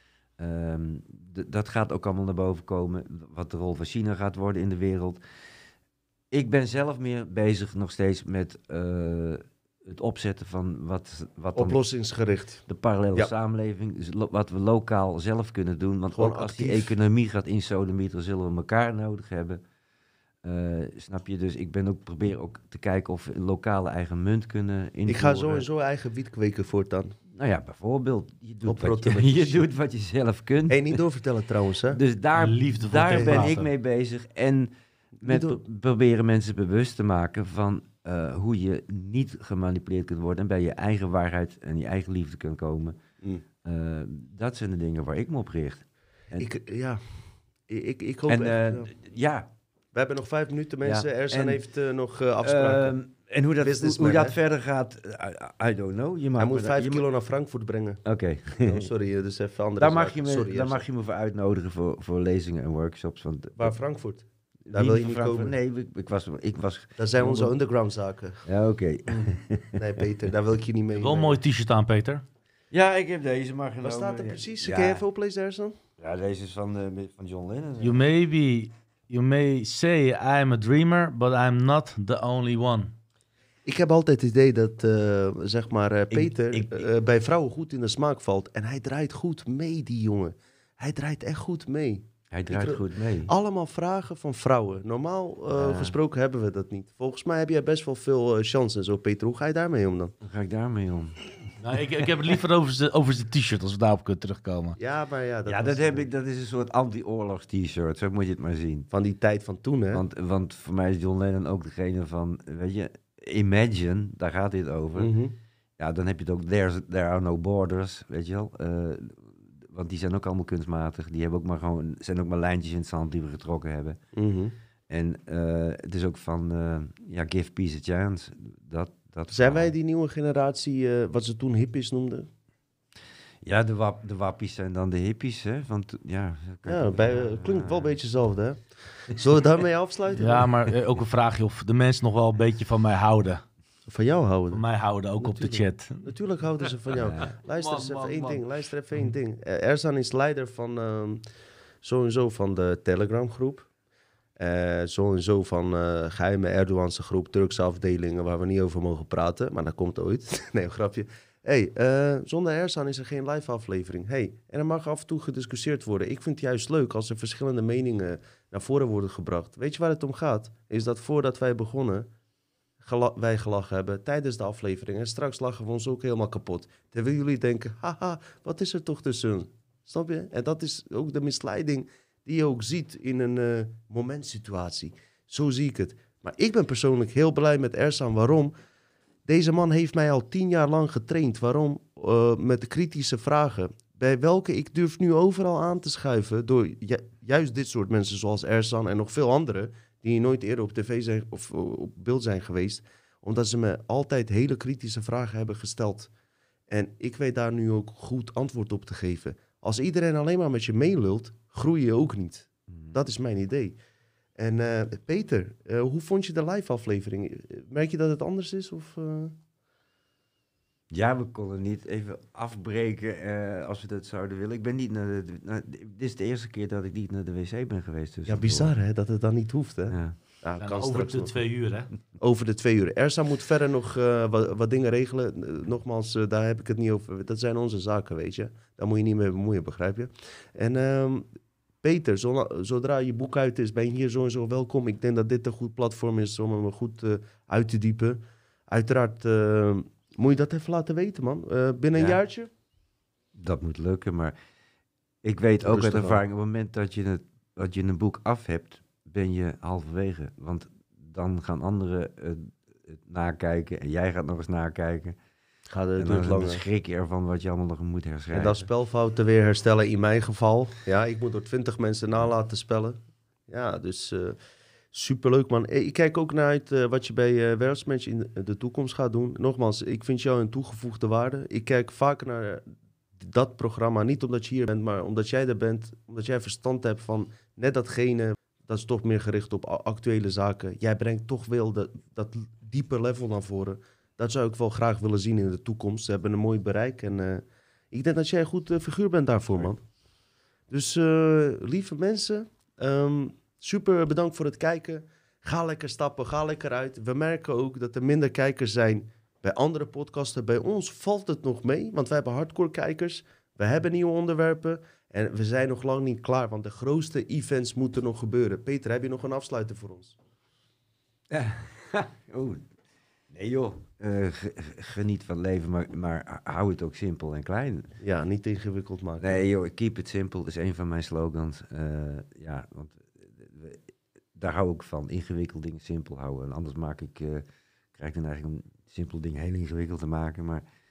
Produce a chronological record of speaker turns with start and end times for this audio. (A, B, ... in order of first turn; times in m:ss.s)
0:00.4-0:05.2 A
0:06.3-0:11.8 A
0:11.5-0:13.3 B
0:12.7-0:19.6 A
0:16.1-0:16.9 B
0:20.4-0:25.6 A
0:25.1-0:27.2 B
0:27.3-0:31.0 A
0:28.6-0:29.6 B
0:30.7-0:32.0 B
0:31.9-0:34.7 A
0:32.3-0:33.7 C
0:33.1-0:33.5 B
0:35.2-0:43.0 A
0:35.2-0:35.6 B
0:43.6-0:46.5 A
0:46.4-0:48.9 B
0:48.3-0:49.5 A
0:49.9-0:53.0 B
0:50.8-0:51.6 A
0:52.4-0:57.0 A
0:53.6-0:54.4 B
0:56.4-0:58.0 B
0:58.0-0:58.9 A
0:58.6-1:00.8 B
0:59.8-1:03.8 A
1:03.6-1:05.5 B
1:04.7-1:07.5 A
1:07.0-1:08.4 B
1:08.4-1:09.8 A
1:09.1-1:11.4 B
1:10.9-1:12.2 C
1:12.7-1:15.0 A
1:13.8-1:15.8 B
1:16.0-1:18.0 A
1:17.8-1:22.9 C
1:23.6-1:40.1 B
1:26.1-1:26.9 A
1:32.3-1:33.3 A
1:35.5-1:36.0 A
1:40.2-1:41.5 A
1:41.6-1:44.8 C
1:44.8-1:46.1 B
1:45.4-1:48.9 A
1:48.9-1:50.0 B
1:49.9-1:55.1 A
1:55.0-1:55.4 B
1:55.8-2:04.0 A
2:04.1-2:04.5 B
2:04.9-2:09.7 A
2:09.3-2:12.3 B
2:13.4-2:17.9 A
2:16.6-2:20.5 B
2:20.1-2:23.4 C
2:23.9-2:24.6 B
2:24.5-2:26.1 C
2:25.2-2:31.2 B
2:26.9-2:27.3 A
2:27.5-2:28.4 C
2:31.8-2:33.7 B
2:34.4-2:52.1 B
2:52.8-3:08.5 B
3:09.3-3:26.1 B
3:26.7-3:33.8 B
3:32.7-3:33.0 A
3:34.4-3:39.4 B
3:40.9-3:48.7 A
3:48.2-3:51.4 B
3:49.9-3:50.2 A
3:50.6-3:51.9 C
3:52.2-4:01.3 B
4:01.8-4:12.5 B
4:11.9-4:12.2 A
4:13.3-4:14.3 A
4:15.2-4:25.2 A
4:15.6-4:16.2 B
4:25.7-4:26.6 B
4:26.0-4:28.7 A
4:28.3-4:34.4 B
4:34.9-4:42.6 B
4:43.2-4:59.8 B
5:00.7-5:20.2 B
5:21.3-5:22.6 A
5:23.3-5:27.9 A
5:28.0-5:29.4 B
5:29.2-5:33.8 A
5:34.3-5:40.6 A